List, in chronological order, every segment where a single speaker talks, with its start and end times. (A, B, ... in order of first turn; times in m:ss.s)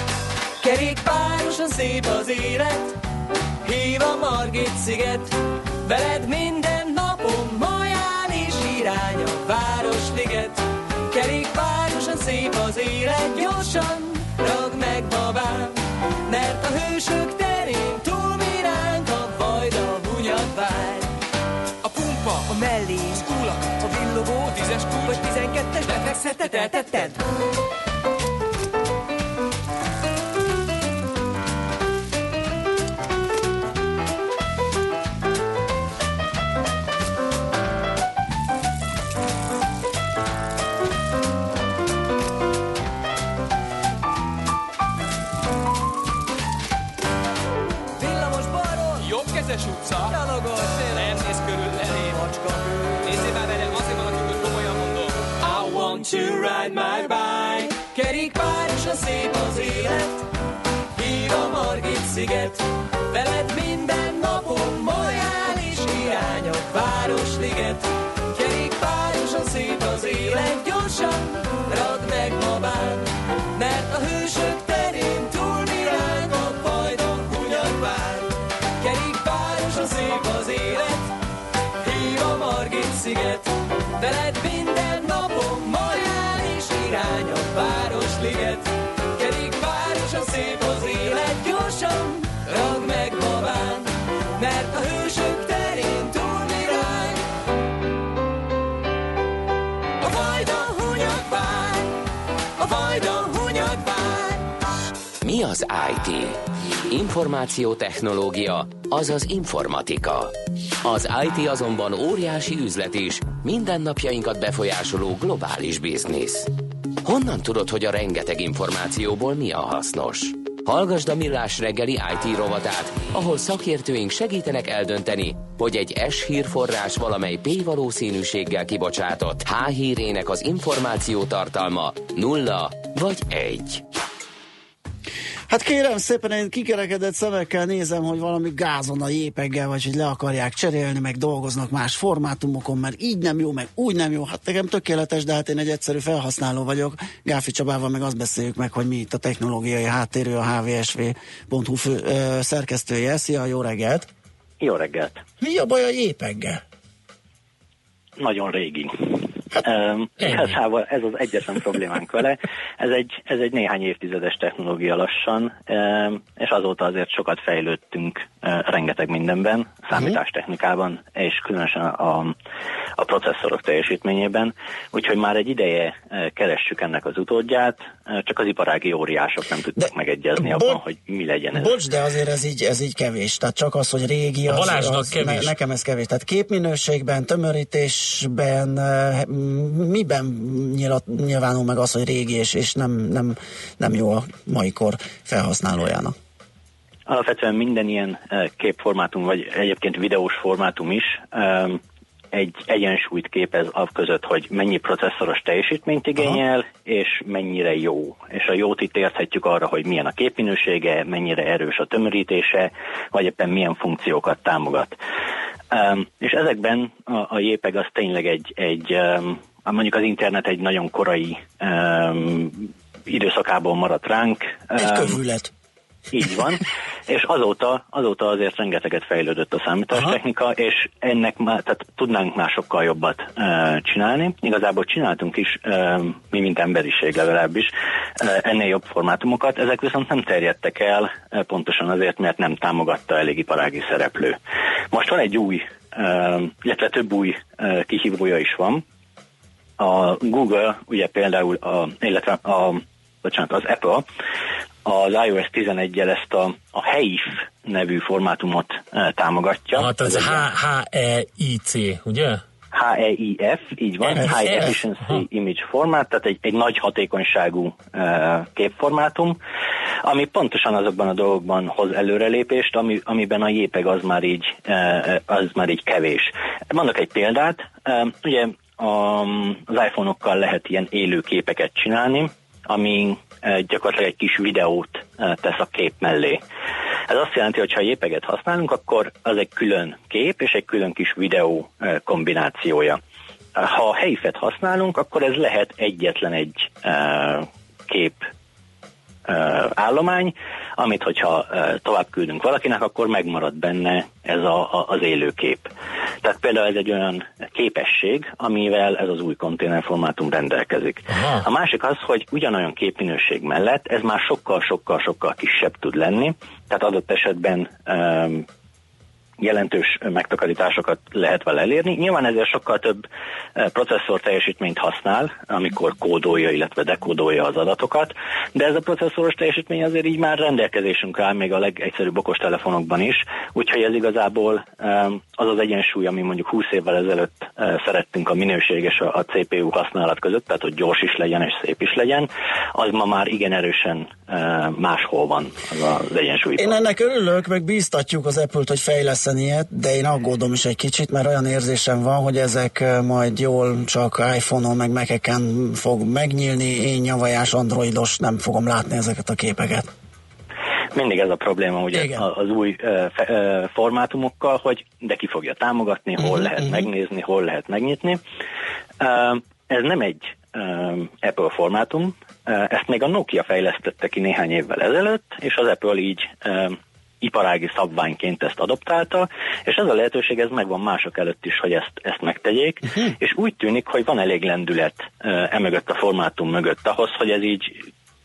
0:00.6-0:03.0 A
0:03.6-0:21.1 A
0:21.8-0:22.6 B
0:22.5-0:23.3 A
0:23.1-0:27.1 B
0:23.8-0:24.2 A
0:25.1-0:27.2 A
0:48.0-0:49.2 A
0:49.0-0:50.2 B
0:50.0-0:51.2 A
0:51.0-0:52.2 B
0:52.0-0:53.2 A
0:53.0-0:55.3 B
0:55.5-1:00.2 A
1:01.0-1:21.1 A
1:21.8-1:37.2 A
1:40.0-1:42.0 A
1:42.6-1:44.5 A
1:45.2-1:56.5 C
1:57.0-2:13.8 C
2:15.5-2:34.1 D
2:34.6-2:35.2 E
2:35.4-2:36.6 D
2:38.2-2:52.3 E
2:40.2-2:40.5 F
2:53.0-3:01.7 E
2:59.8-3:00.8 D
3:01.5-3:16.1 D
3:04.5-3:05.5 F
3:17.1-3:21.8 E
3:22.3-3:34.9 E
3:35.7-3:45.2 E
3:44.8-3:45.5 D
3:46.1-4:04.4 E
4:04.9-4:08.8 E
4:09.8-4:14.0 E
4:14.9-4:20.5 E
4:19.8-4:22.4 F
4:22.7-4:29.3 E
4:24.1-4:25.2 F
4:30.1-4:36.2 E
4:36.8-4:46.4 E
4:47.1-4:53.0 E
4:53.6-4:58.2 E
4:59.3-5:05.7 E
5:06.2-5:18.4 E
5:11.1-5:11.5 F
5:19.4-5:22.9 E
5:23.7-5:46.8 E
5:46.6-5:59.9 D
6:01.0-6:08.2 E
6:01.9-6:02.2 D
6:09.0-6:27.7 E